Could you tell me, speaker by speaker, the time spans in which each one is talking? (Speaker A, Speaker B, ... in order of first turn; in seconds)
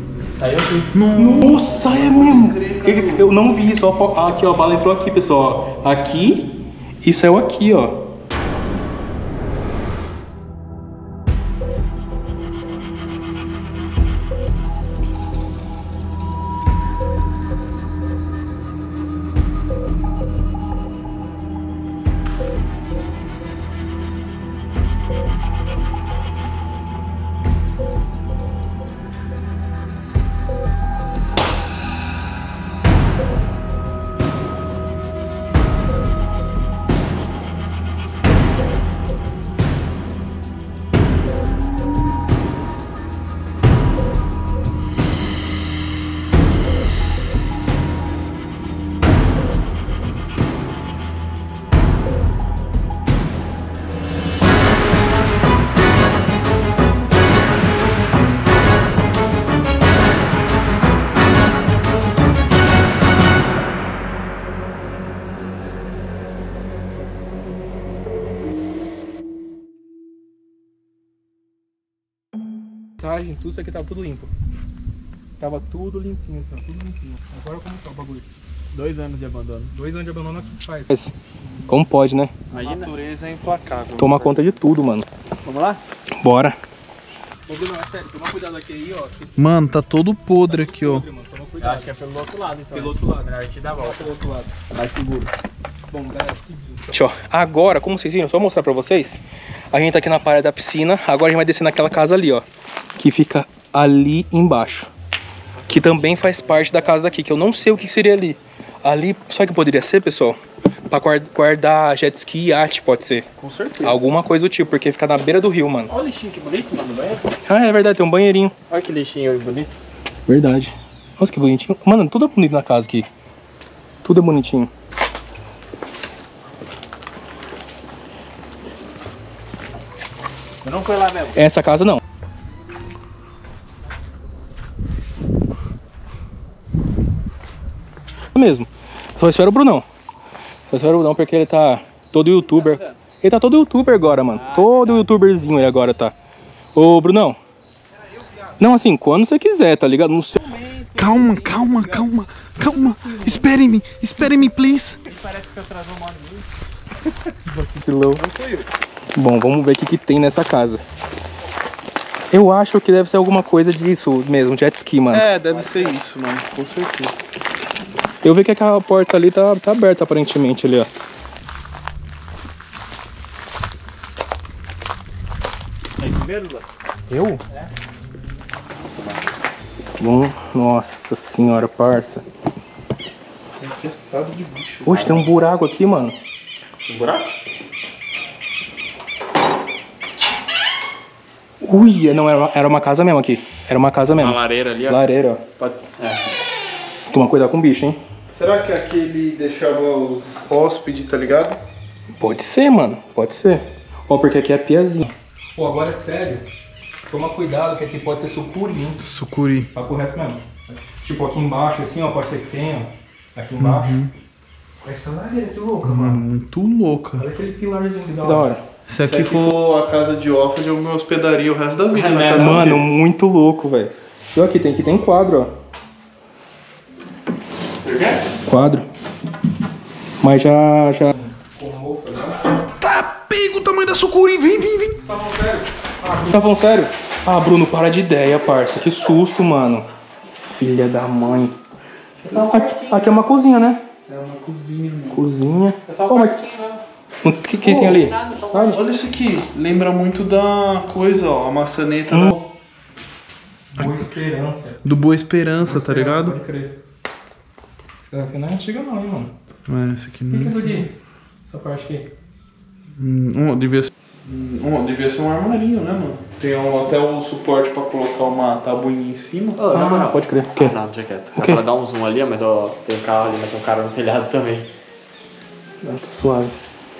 Speaker A: 0.4-0.9, 78.7-79.7, 82.5-82.9, 85.5-85.8, 91.6-94.1, 94.7-95.3, 105.5-107.1, 113.4-114.0, 115.9-117.3, 118.7-119.8, 130.6-131.4, 144.3-145.1, 155.1-156.5, 158.2-158.7, 165.4-166.0, 176.0-176.7, 178.9-179.2, 186.8-187.3, 194.1-196.3, 219.0-219.3, 221.9-222.8, 227.8-228.2, 242.2-243.2, 244.1-245.0, 245.9-246.8, 247.9-248.8, 269.6-274.7
Speaker B: 0.9-3.3, 82.5-84.3, 89.4-91.1, 150.9-155.0, 165.1-167.2, 183.6-185.2, 198.3-201.6, 209.0-209.7, 213.6-214.1, 215.8-217.3, 218.2-222.9, 232.7-235.0, 244.1-245.2, 247.6-248.1, 248.6-252.3, 254.8-256.4, 259.7-260.9, 263.0-269.7
Speaker C: 1.1-6.4, 7.0-8.0, 73.0-74.3, 75.4-78.3, 79.7-81.1, 81.7-82.3, 84.0-85.1, 86.2-86.6, 87.5-89.5, 90.5-91.9, 92.7-94.5, 95.9-99.2, 99.7-102.5, 103.0-104.9, 105.7-113.3, 113.8-115.9, 117.5-118.5, 120.3-123.1, 124.0-124.7, 131.3-132.0, 138.3-139.9, 140.7-146.1, 146.8-147.4, 148.6-153.5, 157.5-158.2, 159.2-160.8, 162.3-165.3, 168.2-170.9, 177.1-177.4, 180.0-182.2, 184.8-186.2, 191.6-195.4, 197.1-198.0, 202.2-206.4, 207.1-209.0, 209.7-214.0, 214.8-216.2, 217.2-218.6, 222.3-225.5, 228.5-228.9, 230.2-232.5, 235.0-239.9, 240.4-241.6, 242.2-243.8, 245.1-246.4, 247.2-248.8, 252.1-252.5, 253.7-254.8, 255.6-256.7, 258.0-259.3, 260.3-260.9, 261.5-262.1, 269.7-270.8, 271.4-271.6, 275.8-276.5